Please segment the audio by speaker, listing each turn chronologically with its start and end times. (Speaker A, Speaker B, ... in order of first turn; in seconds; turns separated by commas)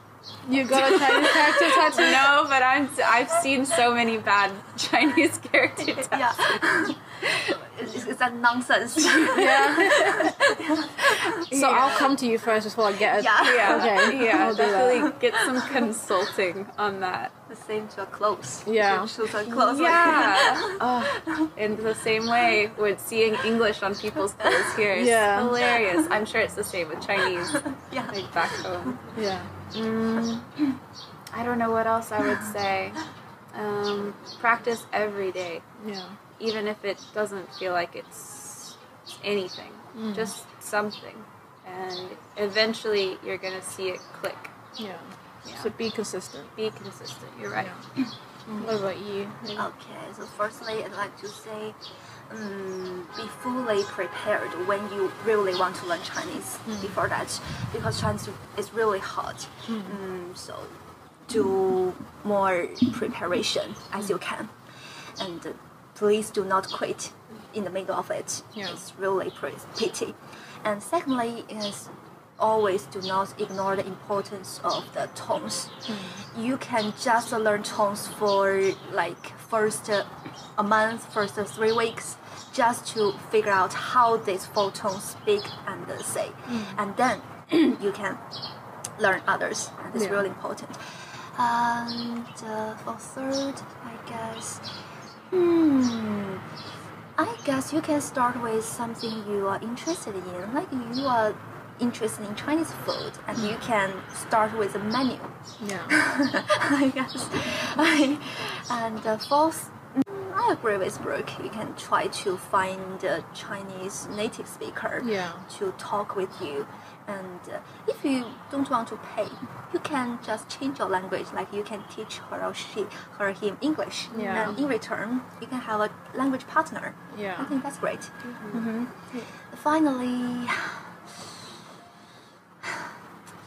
Speaker A: 0.5-2.4, Speaker B: 0.7-6.6, Speaker C: 5.8-11.4, Speaker B: 7.2-7.5, Speaker B: 9.0-12.1, Speaker A: 9.3-10.3, Speaker A: 11.5-15.1, Speaker C: 13.1-15.9, Speaker B: 13.3-17.3, Speaker C: 17.5-21.5, Speaker A: 18.6-19.1, Speaker B: 19.4-29.0, Speaker C: 24.4-24.7, Speaker A: 24.9-25.6, Speaker C: 27.5-29.0, Speaker A: 29.1-29.5, Speaker B: 29.7-30.4, Speaker C: 30.1-30.4, Speaker B: 31.3-33.0, Speaker B: 33.5-35.6, Speaker A: 35.8-36.2, Speaker B: 36.4-44.5, Speaker A: 39.9-40.3, Speaker A: 44.8-46.5, Speaker B: 45.4-45.7, Speaker B: 46.5-47.7, Speaker C: 48.5-48.8, Speaker A: 48.5-49.7, Speaker C: 49.5-51.8, Speaker C: 52.3-60.7, Speaker A: 56.7-57.0, Speaker A: 59.7-60.0, Speaker C: 61.3-64.5, Speaker C: 65.2-88.2, Speaker A: 75.9-76.2, Speaker A: 86.5-86.8, Speaker C: 89.0-94.6, Speaker A: 89.9-90.3, Speaker C: 95.3-96.4, Speaker C: 97.2-130.9, Speaker A: 105.6-106.0, Speaker A: 115.0-115.5, Speaker A: 124.1-124.6, Speaker A: 127.1-127.5, Speaker B: 128.2-128.6, Speaker C: 132.6-132.9